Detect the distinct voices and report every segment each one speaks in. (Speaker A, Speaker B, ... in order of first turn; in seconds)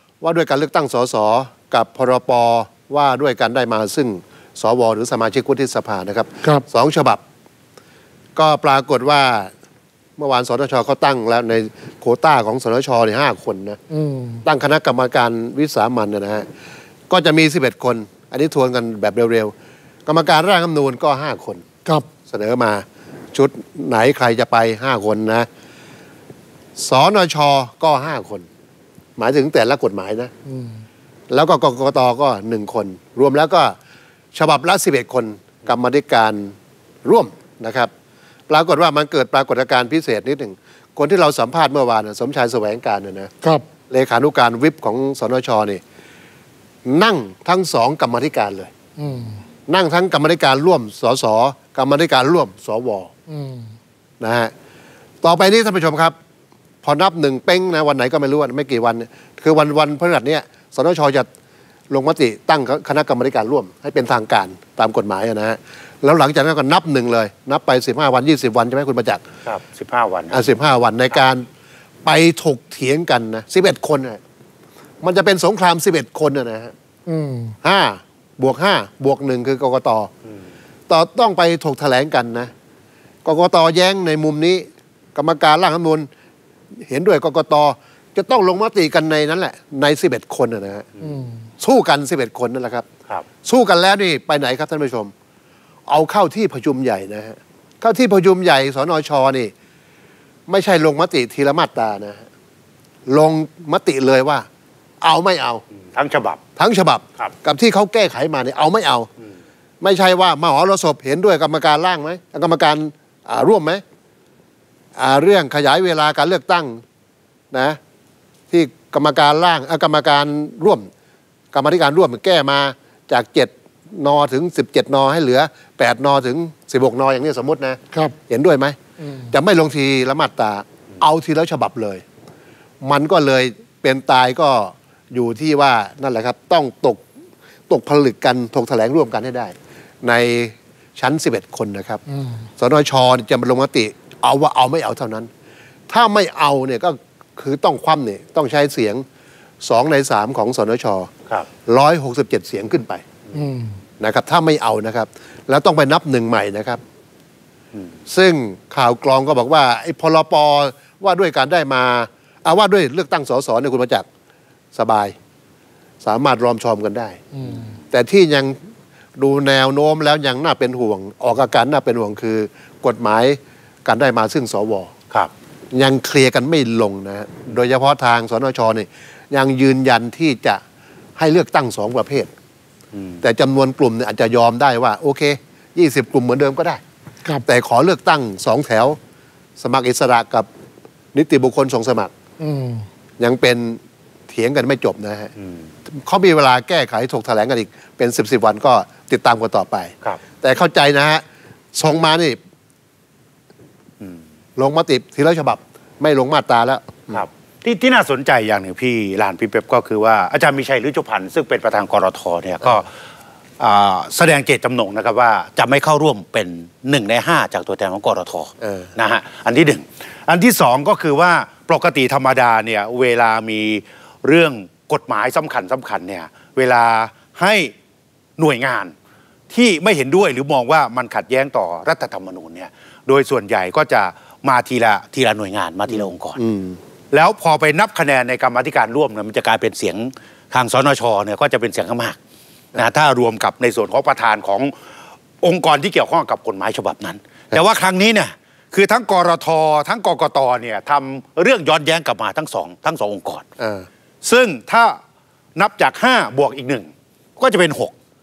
Speaker A: 0.2-7.2, 8.3-9.5, 10.2-13.8, 14.4-16.5, 17.1-19.5, 20.1-21.6, 22.3-25.5, 26.8-28.5, 29.2-30.3, 31.3-33.8, 34.3-37.9, 38.5-43.3, 43.9-45.8, 46.8-48.7, 49.7-53.1, 54.2-54.5, 55.2-56.1, 56.8-61.3, 61.9-69.2, 70.3-71.5, 72.0-74.2, 75.0-76.7, 77.6-80.1, 80.9-82.5, 83.2-86.1, 86.8-90.9, 91.6-92.9, 93.4-95.1, 95.9-99.5, 100.5-102.2, 103.1-104.5, 105.0-105.6, 106.5-109.1, 109.8-113.8, 115.0-116.8, 117.5-117.8, 118.5-120.9, 121.5-128.8, 129.3-132.0, 132.8-137.0, 137.7-142.0, 142.6-145.3, 145.9-149.0, 149.6-151.1, 151.7-153.0, 154.0-156.8, 158.1-164.1, 164.7-165.2, 166.0-167.2, 167.9-168.6, 169.2-174.9, 175.7-180.6, 181.2-182.3, 183.2-186.8, 187.4-189.0, 189.6-190.5, 191.1-192.1, 193.2-195.3, 195.9-202.4, 204.6-207.2, 218.6-218.9, 235.9-236.8, 253.6-253.9
Speaker B: 13.9-14.4, 30.5-30.8, 49.0-49.4, 53.3-53.7, 77.1-77.5, 91.0-91.4, 129.0-129.3, 153.3-153.8, 167.3-167.7, 192.4-192.8
Speaker C: 69.4-70.4, 105.9-106.4, 182.9-183.2, 207.1-212.9, 213.6-227.7, 228.4-228.9, 229.5-236.4, 237.1-242.2, 242.8-244.7, 245.4-253.4, 254.2-255.0, 255.6-257.9